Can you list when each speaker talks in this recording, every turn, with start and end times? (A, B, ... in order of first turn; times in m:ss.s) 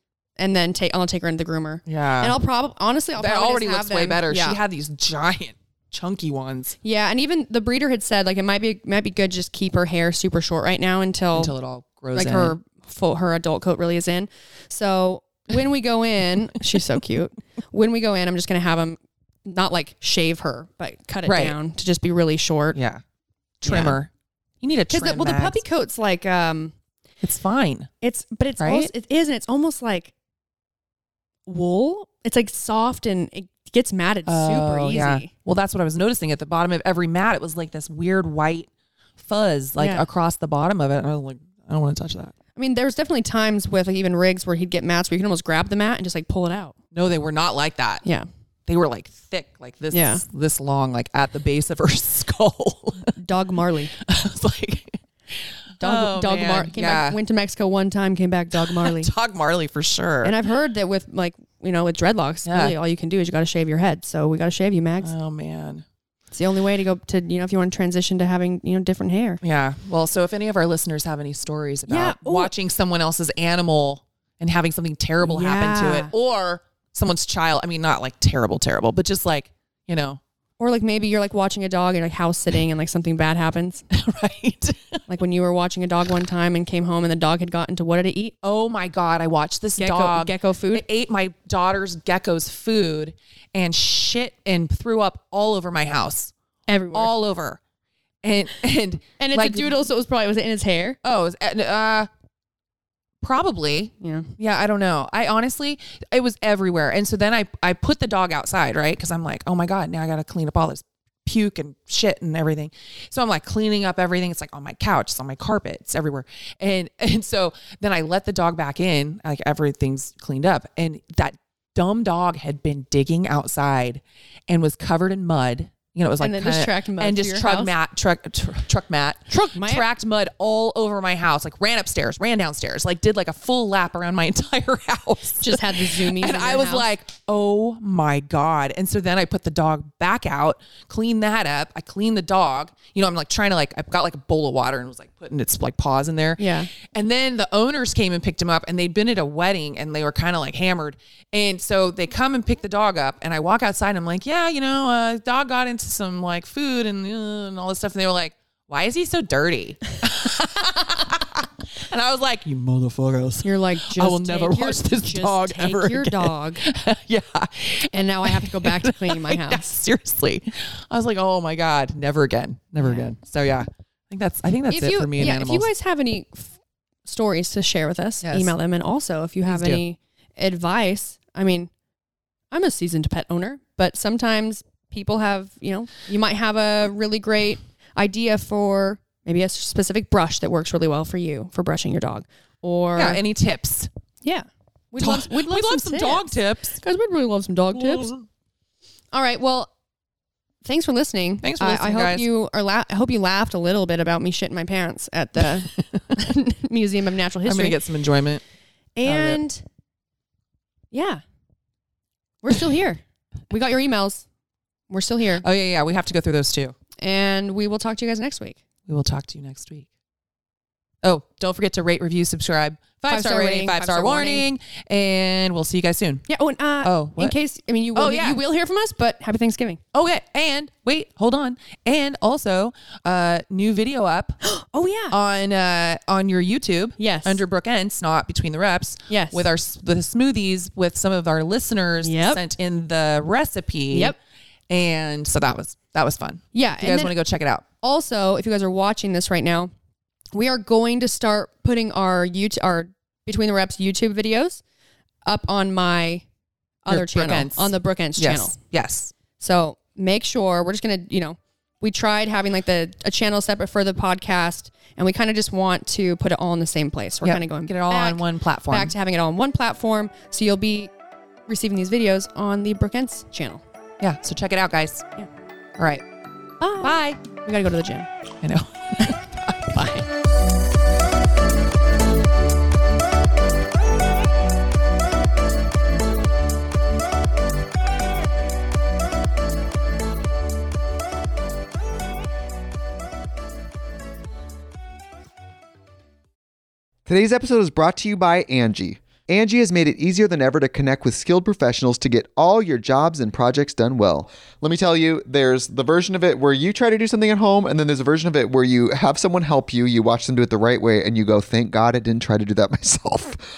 0:00.4-0:04.6 A
0:01.8-0:02.4 B
0:03.2-0:06.8 B
0:06.8-0:11.5 A
0:11.3-0:12.6 B
0:12.1-0:22.8 A
0:21.2-0:21.6 B
0:22.7-0:23.0 B
0:23.6-0:24.1 B
0:23.6-0:24.0 A
0:24.6-0:25.6 B
0:24.9-0:26.7 A
0:27.2-0:27.9 B
0:28.0-0:30.1 A
0:28.6-0:28.9 B
0:31.5-0:35.3 A
0:34.2-0:42.3 B
0:39.8-0:40.0 A
0:42.6-0:46.7 A
0:46.9-0:48.0 B
0:48.6-0:53.1 B
0:49.9-0:50.2 A
0:53.2-0:53.9 A
0:54.0-0:55.0 B
0:55.8-0:57.2 B
0:55.8-0:59.1 A
0:58.5-1:00.3 B
1:00.2-1:05.1 A
1:02.4-1:02.7 B
1:05.0-1:05.8 B
1:06.3-1:09.4 A
1:09.4-1:20.2 B
1:11.9-1:12.5 A
1:15.2-1:16.1 A
1:20.6-1:23.8 A
1:23.9-1:25.0 B
1:25.1-1:28.3 A
1:28.4-1:36.3 B
1:29.8-1:30.8 A
1:36.7-1:37.1 A
1:36.9-1:37.6 B
1:38.2-1:39.8 B
1:39.2-1:41.0 A
1:41.0-1:42.1 B
1:43.2-2:55.7 B
1:44.0-1:44.3 A
2:06.2-2:07.7 A
2:09.3-2:09.8 A
2:15.4-2:16.8 A
2:26.4-2:26.7 A
2:43.4-2:46.6 A
2:47.9-2:49.6 A
2:52.8-2:53.1 A
2:54.7-2:56.5 A
2:57.0-3:01.7 A
2:58.2-2:58.5 B
2:59.4-2:59.8 B
3:02.5-3:13.2 A
3:13.0-3:13.9 B
3:14.2-3:16.3 A
3:15.0-3:16.8 B
3:16.8-3:18.1 A
3:17.7-3:18.2 B
3:19.1-3:19.7 A
3:20.6-3:27.8 A
3:21.4-3:22.3 B
3:25.7-3:26.0 B
3:27.4-3:28.4 B
3:29.0-3:29.6 A
3:29.0-3:29.4 B
3:30.9-3:31.2 A
3:32.4-3:34.2 A
3:34.9-3:35.4 A
3:35.4-3:36.7 B
3:37.0-3:38.6 A
3:38.9-3:39.9 B
3:41.0-3:46.2 B
3:43.1-3:44.5 A
3:46.3-3:49.8 A
3:46.8-3:47.3 B
3:47.9-3:48.4 B
3:49.9-3:54.4 B
3:54.4-3:55.1 A
3:55.1-4:04.2 B
3:57.0-3:57.4 A
3:59.1-3:59.4 A
4:02.0-4:02.4 A
4:04.7-4:07.6 B
4:06.5-4:07.1 A
4:07.8-4:09.7 A
4:10.3-4:14.6 A
4:15.2-4:16.2 A
4:16.8-4:18.5 A
4:16.9-4:19.1 B
4:19.4-4:30.9 A
4:27.2-4:28.9 B
4:31.5-4:33.6 A
4:34.0-4:35.0 B
4:35.8-4:36.0 B
4:36.6-4:38.1 A
4:36.8-4:37.1 B
4:38.4-4:39.6 B
4:39.7-4:40.0 A
4:57.1-5:13.4 C